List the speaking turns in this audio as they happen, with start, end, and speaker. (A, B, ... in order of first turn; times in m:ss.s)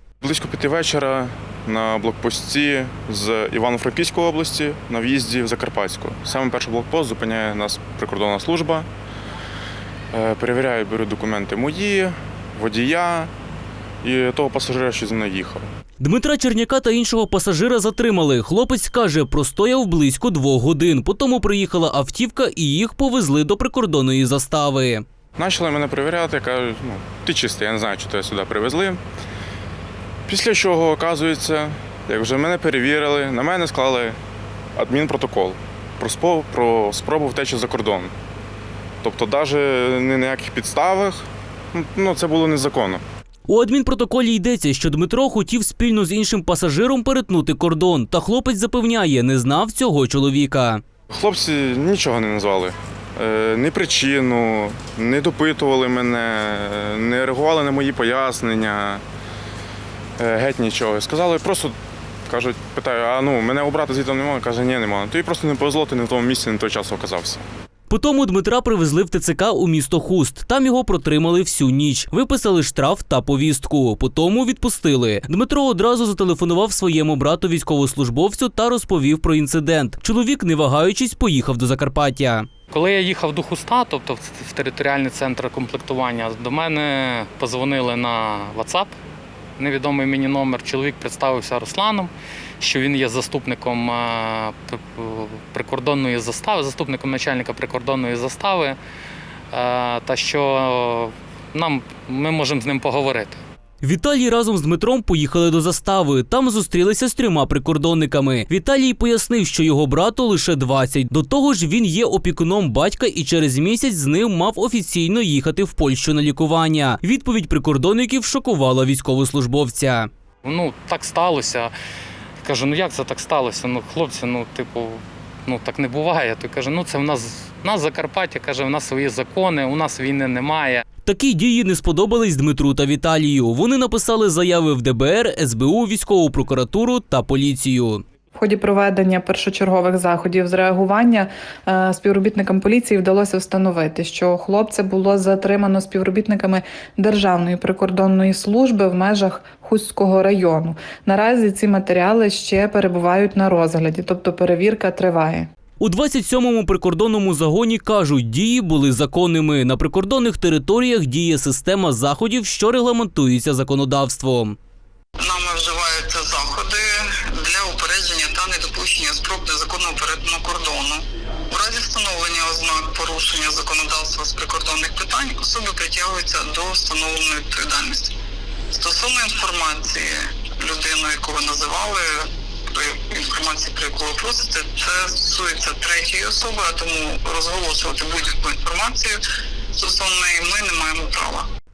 0:00.2-0:08.9 A
0:10.1-0:13.3 A
0:14.0-0:15.6 A
0:16.0-0:25.0 B
0:25.4-0:29.0 A
0:30.3-0:34.2 A
0:34.8-0:38.1 A
0:39.0-0:43.0 A
0:43.5-0:50.8 B
0:51.1-0:59.0 A
1:00.2-1:01.7 A
1:02.3-1:07.4 A
1:07.9-1:22.5 B
1:22.7-1:28.9 C
1:29.6-1:38.8 C
1:39.5-1:43.4 C
1:43.8-2:00.1 B
2:00.4-2:01.7 C
2:02.4-2:10.8 C
2:11.0-2:18.0 B
2:18.4-2:35.5 D
2:35.8-2:44.6 B
2:45.2-2:58.2 E
2:58.7-3:11.5 E